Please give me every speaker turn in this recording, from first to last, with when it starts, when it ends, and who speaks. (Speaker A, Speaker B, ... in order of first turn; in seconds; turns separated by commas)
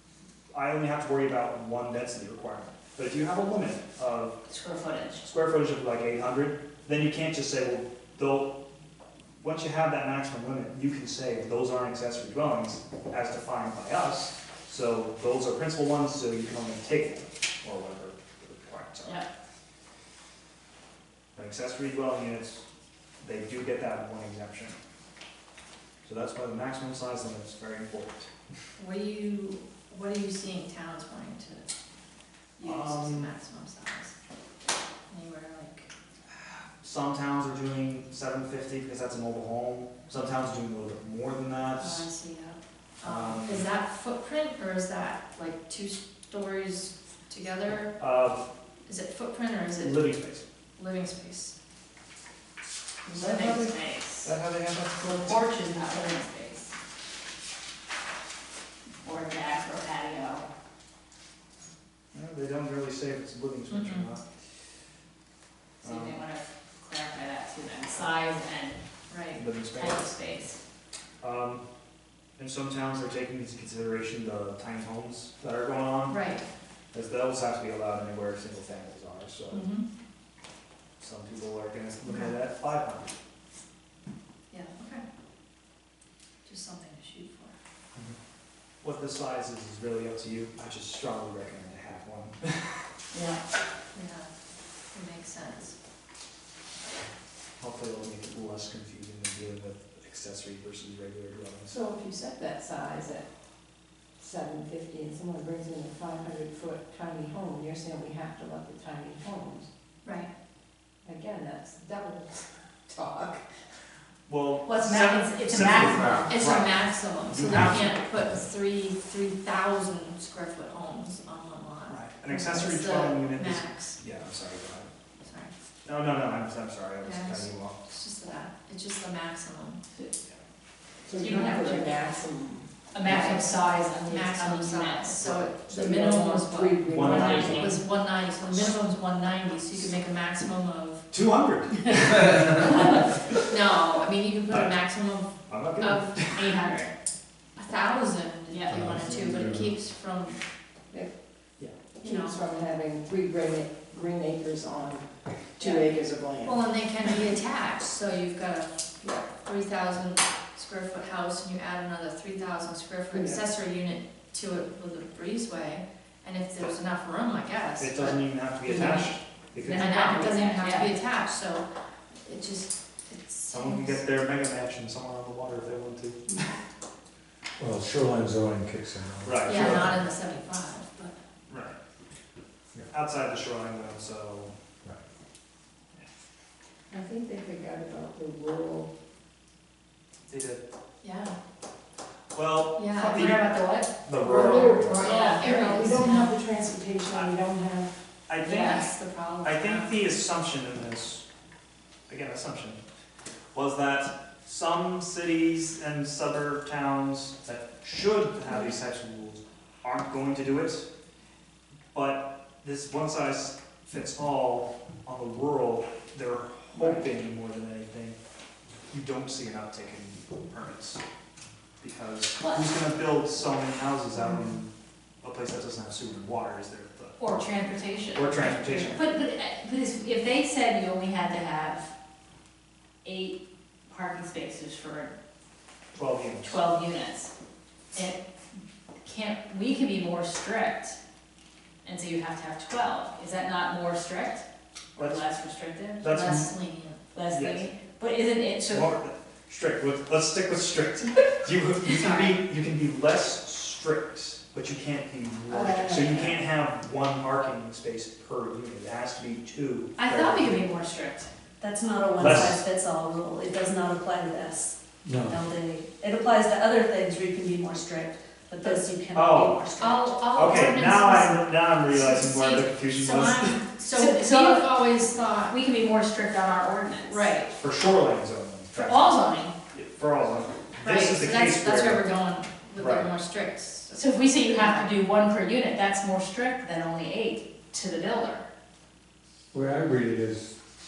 Speaker A: 0.5-4.4, Speaker B: 4.5-5.2, Speaker A: 5.2-8.5, Speaker A: 9.4-19.2, Speaker A: 21.3-22.6, Speaker A: 23.2-24.8, Speaker A: 26.0-28.3, Speaker C: 28.8-31.7, Speaker C: 32.6-34.1, Speaker A: 32.6-33.3, Speaker C: 35.1-35.9, Speaker A: 36.8-42.1, Speaker C: 41.8-48.0, Speaker A: 43.0-43.7, Speaker A: 48.0-48.5, Speaker C: 48.9-50.1, Speaker A: 49.8-50.5, Speaker C: 50.8-51.5, Speaker B: 53.0-54.3, Speaker A: 53.2-53.6, Speaker C: 53.2-53.7, Speaker A: 54.2-55.4, Speaker B: 54.9-56.7, Speaker B: 59.0-60.5, Speaker A: 62.1-64.2, Speaker C: 63.7-64.1, Speaker B: 65.8-68.8, Speaker A: 65.8-66.2, Speaker C: 69.1-69.4, Speaker A: 69.3-70.1, Speaker B: 69.6-70.6, Speaker A: 71.2-71.6, Speaker A: 72.4-76.2, Speaker C: 76.1-76.5, Speaker A: 76.9-79.7, Speaker C: 79.5-79.8, Speaker A: 81.0-83.1, Speaker C: 82.0-82.3, Speaker C: 84.5-85.0, Speaker C: 86.4-87.5, Speaker A: 88.8-92.8, Speaker B: 93.1-93.4, Speaker C: 93.9-94.3, Speaker C: 94.9-95.7, Speaker A: 97.6-101.8, Speaker D: 101.7-103.3, Speaker D: 104.2-109.7, Speaker C: 110.0-110.3, Speaker D: 111.0-113.6, Speaker A: 114.3-118.0, Speaker B: 114.6-116.7, Speaker C: 115.7-124.0, Speaker A: 121.9-124.9, Speaker C: 125.2-125.5, Speaker A: 125.8-127.8, Speaker C: 127.0-129.8, Speaker D: 131.1-133.4, Speaker B: 131.2-132.0, Speaker B: 132.9-135.3, Speaker C: 133.1-141.1, Speaker D: 135.3-137.7, Speaker A: 136.9-137.8, Speaker A: 141.1-143.1, Speaker C: 143.5-146.4, Speaker A: 145.5-146.4, Speaker B: 146.3-146.9, Speaker C: 147.6-150.4, Speaker B: 148.5-148.9, Speaker E: 148.7-149.7, Speaker D: 151.9-156.7, Speaker C: 152.0-152.4, Speaker C: 155.6-155.9, Speaker C: 156.4-169.0, Speaker D: 163.1-163.4, Speaker A: 167.8-170.2, Speaker B: 168.7-169.0, Speaker B: 169.6-170.9, Speaker C: 169.7-171.7, Speaker C: 172.2-174.0, Speaker A: 173.5-176.3, Speaker E: 177.6-180.0, Speaker A: 179.2-179.9, Speaker C: 179.4-181.2, Speaker A: 181.5-181.8, Speaker A: 182.9-184.5, Speaker D: 186.9-188.9, Speaker A: 190.3-190.6, Speaker C: 191.0-191.3, Speaker A: 192.3-193.5, Speaker C: 192.7-193.7, Speaker B: 192.9-193.9, Speaker A: 194.0-195.1, Speaker D: 194.2-197.9, Speaker C: 194.2-196.4, Speaker B: 195.0-195.8, Speaker A: 198.3-198.9, Speaker B: 198.4-198.8, Speaker C: 198.6-200.0, Speaker A: 199.4-201.2, Speaker A: 202.1-202.8, Speaker A: 203.5-210.8, Speaker A: 211.9-218.2, Speaker A: 218.9-221.0, Speaker A: 221.8-227.2, Speaker B: 222.4-222.7, Speaker B: 227.2-231.9, Speaker A: 228.1-229.0, Speaker B: 233.0-235.1, Speaker A: 235.9-236.6, Speaker B: 236.4-237.3, Speaker B: 237.9-238.2, Speaker B: 239.0-241.0, Speaker B: 241.8-244.4, Speaker B: 244.9-246.1, Speaker A: 245.0-245.2, Speaker A: 246.0-246.5, Speaker C: 246.0-247.0, Speaker B: 247.1-248.9, Speaker A: 247.3-247.7, Speaker A: 248.7-260.6, Speaker C: 251.8-252.3, Speaker D: 255.5-256.3, Speaker B: 260.0-261.3, Speaker F: 261.6-264.8, Speaker E: 262.2-262.5, Speaker A: 262.2-262.6, Speaker E: 265.0-265.4, Speaker F: 265.3-270.1, Speaker A: 269.1-269.6, Speaker C: 269.8-275.6, Speaker A: 270.3-273.6, Speaker B: 273.9-274.9, Speaker B: 275.5-277.3, Speaker C: 277.1-277.6, Speaker A: 277.5-282.1, Speaker B: 278.7-279.5, Speaker C: 280.8-284.9, Speaker A: 282.8-283.1, Speaker B: 283.9-288.4, Speaker E: 289.5-290.6